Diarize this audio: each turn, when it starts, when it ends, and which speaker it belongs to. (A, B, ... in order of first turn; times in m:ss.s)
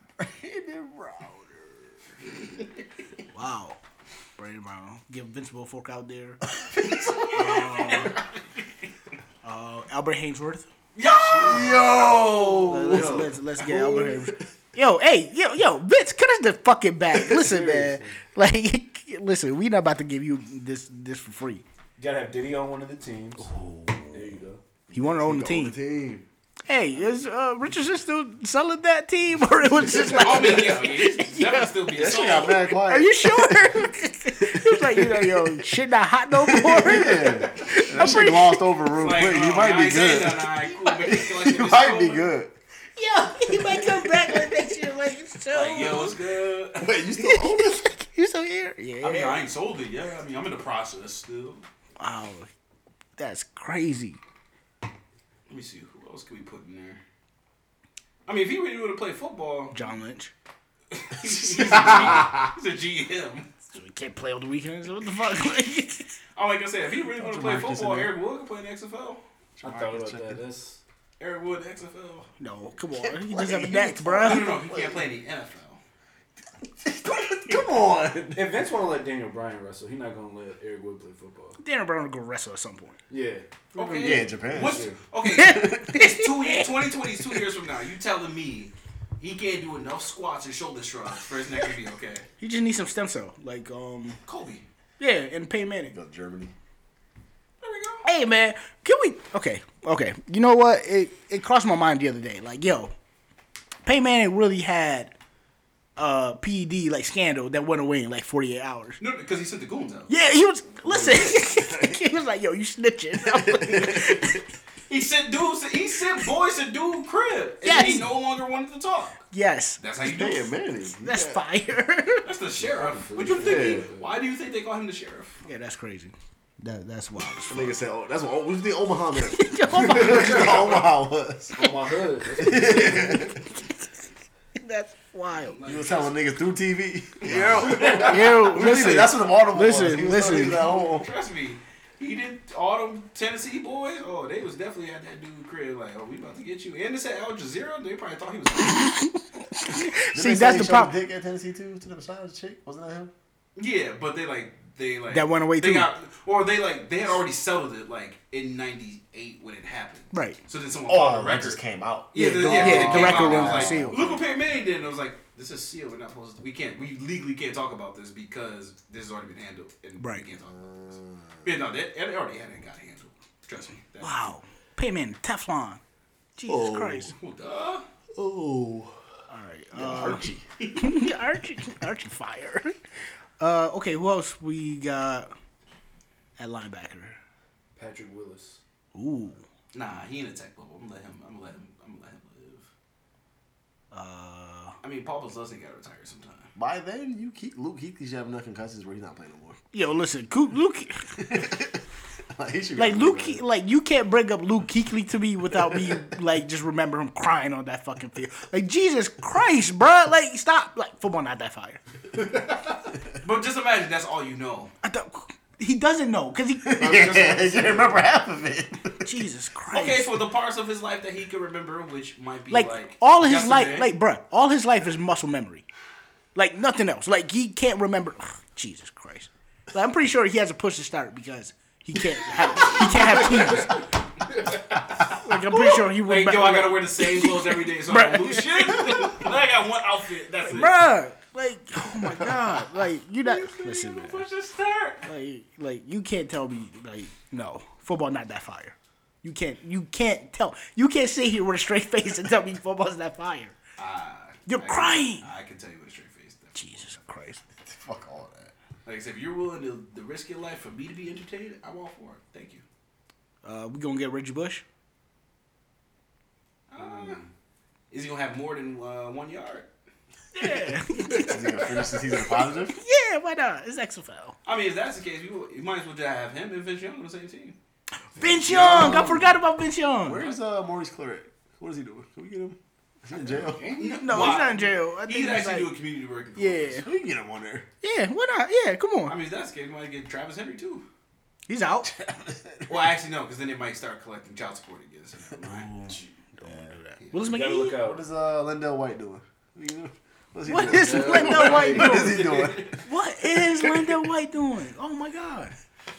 0:00.2-0:02.0 A
0:03.3-0:03.8 B
0:04.4-0:06.4 B
0:06.4-0:08.1 A
0:07.1-0:08.3 C
0:07.3-0:08.2 B
0:09.4-0:10.7 B
0:11.0-0:12.8 C
0:11.2-0:11.8 D
0:11.4-0:14.4 A
0:12.6-0:13.3 D
0:12.7-0:21.6 B
0:17.3-0:18.2 D
0:22.0-0:23.5 D
0:23.5-0:24.2 B
0:24.1-0:24.6 D
0:24.9-0:26.3 A
0:24.9-0:25.8 B
0:26.7-0:31.8 B
0:29.8-0:30.4 A
0:30.0-0:32.6 C
0:31.9-0:35.5 A
0:32.8-0:38.7 B
0:36.4-0:42.5 A
0:38.9-0:42.3 C
0:43.0-0:46.2 B
0:43.4-0:44.7 A
0:45.5-0:46.9 C
0:46.8-0:47.9 A
0:47.2-0:49.4 B
0:49.0-0:51.6 C
0:52.0-0:52.5 B
0:53.2-0:54.2 B
0:55.5-0:57.0 C
0:58.3-0:59.8 C
0:59.7-1:00.3 B
1:00.9-1:03.5 C
1:01.5-1:02.4 A
1:03.7-1:06.2 B
1:06.4-1:09.2 C
1:07.1-1:08.1 A
1:09.6-1:10.4 A
1:09.6-1:10.8 D
1:11.2-1:12.3 C
1:12.4-1:14.5 B
1:13.0-1:15.1 A
1:14.2-1:15.8 C
1:16.8-1:18.6 A
1:18.3-1:21.6 D
1:21.6-1:23.0 B
1:23.1-1:25.0 D
1:23.8-1:32.3 C
1:24.0-1:24.9 A
1:25.2-1:26.7 B
1:25.4-1:25.8 A
1:32.4-1:34.2 B
1:34.3-1:34.6 C
1:35.0-1:35.9 B
1:35.9-1:36.5 A
1:37.6-1:38.1 C
1:38.0-1:42.9 B
1:43.8-1:45.1 B
1:46.0-1:49.0 B
1:49.0-1:50.1 C
1:50.1-1:54.4 B
1:50.8-1:52.0 A
1:53.2-1:54.4 A
1:54.9-1:59.2 C
1:57.6-1:58.1 B
1:59.3-1:59.8 B
1:59.8-2:00.5 C
2:00.0-2:01.4 A
2:01.0-2:02.3 B
2:02.2-2:05.4 C
2:02.6-2:04.1 D
2:03.4-2:03.9 A
2:05.4-2:07.8 B
2:07.5-2:11.8 A
2:09.2-2:10.5 B
2:09.8-2:10.5 D
2:10.3-2:10.8 C
2:11.5-2:13.4 D
2:12.3-2:13.4 A
2:14.6-2:15.6 B
2:15.3-2:16.2 C
2:15.6-2:21.1 A
2:17.2-2:18.8 C
2:17.9-2:20.6 B
2:20.1-2:29.0 C
2:28.8-2:30.9 B
2:30.1-2:33.1 A
2:33.6-2:41.6 C
2:35.1-2:35.9 B
2:40.1-2:40.4 B
2:40.9-2:44.2 A
2:42.1-2:50.7 C
2:42.2-2:44.0 B
2:50.0-2:50.2 B
2:50.5-2:51.4 A
2:51.4-2:54.3 C
2:54.0-2:55.8 B
2:56.4-2:57.1 B
2:56.5-2:57.1 A
2:57.1-2:57.9 C
2:58.1-2:59.0 A
2:59.3-3:02.8 B
2:59.7-3:00.4 A
3:00.6-3:00.9 C
3:03.4-3:05.3 B
3:06.4-3:07.2 B
3:07.8-3:08.6 D
3:08.9-3:09.4 B
3:09.7-3:12.7 C
3:13.9-3:14.8 B
3:14.8-3:16.5 C
3:16.6-3:19.6 A
3:19.7-3:21.4 B
3:21.2-3:23.4 A
3:22.8-3:31.8 B
3:33.2-3:34.7 C
3:34.8-3:36.9 B
3:36.6-3:39.1 A
3:36.8-3:38.0 D
3:39.0-3:40.1 B
3:39.7-3:43.9 C
3:42.5-3:45.6 B
3:46.4-3:53.9 B
3:55.1-3:59.1 B
3:55.3-4:00.8 C
4:00.4-4:04.2 B
4:03.2-4:05.1 C
4:05.0-4:13.5 B
4:13.8-4:16.9 C
4:14.5-4:15.3 B
4:16.6-4:17.4 B
4:17.6-4:18.5 A
4:18.8-4:22.6 C
4:23.4-4:24.6 B
4:26.7-4:27.2 C
4:26.8-4:27.3 D
4:27.9-4:29.7 C
4:30.3-4:31.8 B
4:31.2-4:32.8 A
4:32.7-4:34.4 B
4:34.5-4:37.6 C
4:38.2-4:40.2 B
4:38.2-4:39.3 A
4:38.5-4:39.1 D
4:40.0-4:43.7 A
4:43.1-4:44.6 D
4:43.8-4:46.8 C
4:44.0-4:45.7 B
4:46.4-4:46.9 B
4:46.7-4:47.7 A
4:47.8-4:49.2 B
4:49.1-4:50.8 C
4:51.5-4:51.9 B
4:51.8-4:52.9 A
4:52.7-4:55.7 C
4:55.4-4:57.8 B
4:56.4-4:56.8 A
4:57.0-4:57.3 C
4:57.2-4:58.0 D
4:57.8-5:04.0 A
5:00.4-5:05.5 B
5:00.6-5:01.9 D
5:01.2-5:02.8 C